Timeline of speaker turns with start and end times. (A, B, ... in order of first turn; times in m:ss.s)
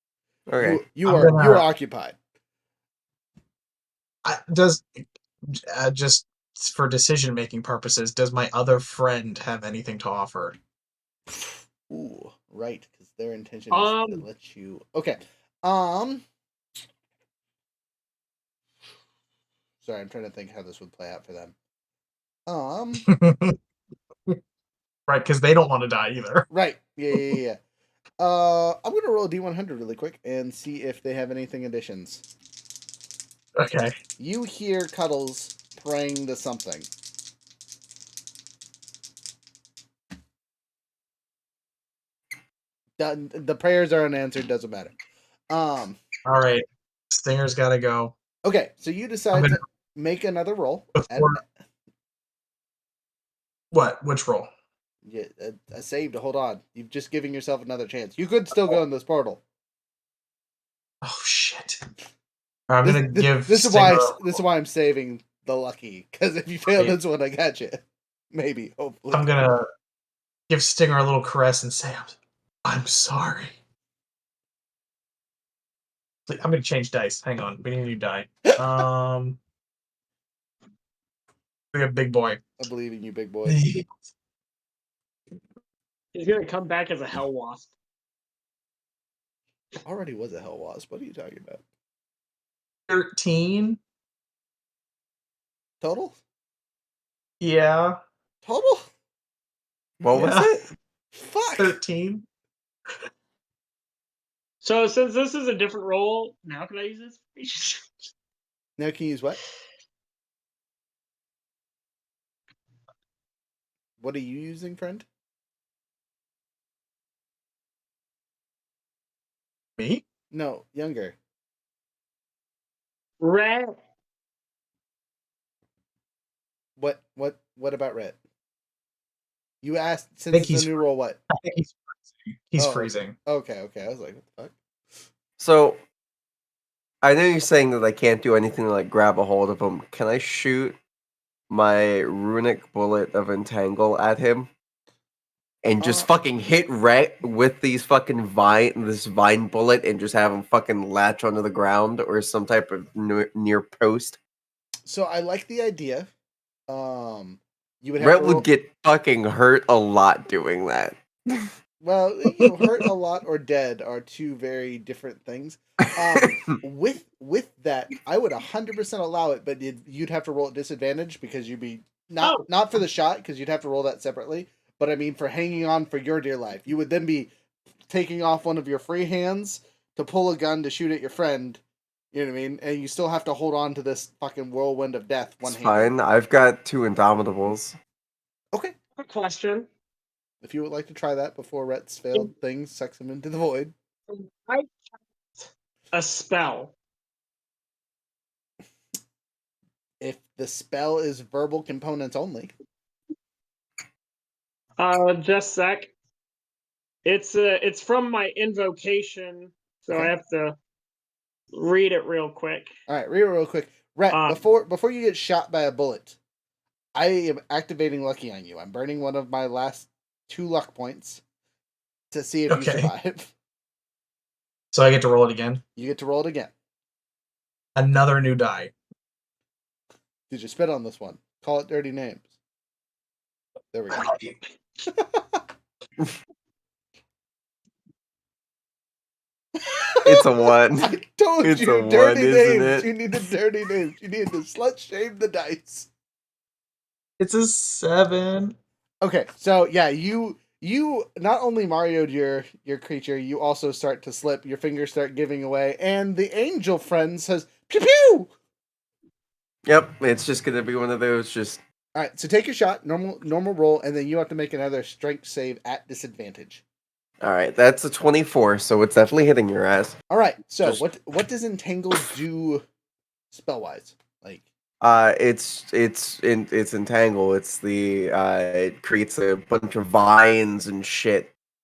0:00.5-0:00.8 A
0:00.6-0:02.2 B
0:01.0-0:01.7 C
0:04.2-0:10.6 C
0:11.9-0:16.2 B
0:13.7-0:14.2 D
0:19.8-0:21.5 B
0:22.5-0:23.0 B
0:23.0-0:23.6 C
0:25.1-0:26.5 C
0:26.5-0:27.6 B
0:28.2-0:32.2 B
0:33.6-0:33.9 C
0:34.2-0:36.9 B
0:43.0-0:44.9 B
0:45.5-0:46.0 B
0:46.2-0:48.1 C
0:48.4-0:51.4 B
0:49.3-0:49.6 C
0:50.9-0:51.4 C
0:53.7-0:54.5 C
0:55.0-0:59.4 B
1:01.0-1:01.8 C
1:02.7-1:04.4 C
1:02.8-1:09.3 B
1:09.1-1:09.6 C
1:10.5-1:13.5 C
1:16.3-1:19.4 C
1:21.7-1:22.4 C
1:22.6-1:23.6 B
1:23.4-1:24.0 C
1:26.1-1:27.7 D
1:29.8-1:31.6 B
1:32.9-1:33.8 C
1:35.8-1:36.2 B
1:37.4-1:38.0 C
1:38.4-1:38.9 B
1:40.0-1:40.6 A
1:40.1-1:40.6 C
1:41.1-1:41.8 B
1:41.6-1:42.2 C
1:44.6-1:47.9 D
1:48.8-1:49.4 B
1:54.0-1:55.0 B
1:59.8-2:00.0 C
2:00.3-2:01.2 B
2:03.2-2:03.8 D
2:06.8-2:08.2 B
2:09.6-2:11.2 B
2:10.3-2:10.7 C
2:11.3-2:13.1 C
2:12.6-2:14.5 B
2:15.4-2:15.8 A
2:17.0-2:20.8 A
2:21.5-2:24.5 A
2:25.6-2:34.2 A
2:25.8-2:26.1 B
2:34.9-2:36.1 B
2:36.7-2:38.4 B
2:38.0-2:41.4 A
2:41.8-2:57.3 B
2:57.9-3:01.6 B
3:02.1-3:05.9 B
3:05.4-3:07.8 A
3:09.0-3:09.7 D
3:10.4-3:13.7 B
3:14.1-3:14.7 D
3:15.9-3:16.7 D
3:20.0-3:22.5 B
3:24.8-3:25.9 D
3:27.0-3:30.6 D
3:31.5-3:32.7 D
3:32.9-3:36.2 B
3:34.1-3:34.4 D
3:36.9-3:41.2 B
3:42.1-3:43.3 B
3:42.5-3:42.9 C
3:44.7-3:45.6 C
3:45.8-3:46.5 B
3:47.8-3:48.7 C
3:50.3-3:52.2 B
3:53.7-3:54.1 B
3:54.8-3:55.4 B
3:59.7-4:00.2 B
4:00.0-4:00.9 A
4:00.8-4:05.9 B
4:01.4-4:02.9 A
4:07.2-4:08.6 C
4:09.0-4:18.3 B
4:19.6-4:21.6 A
4:21.9-4:26.6 B
4:27.2-4:30.0 A
4:30.1-4:32.6 B
4:33.3-4:34.4 B
4:34.8-4:41.3 A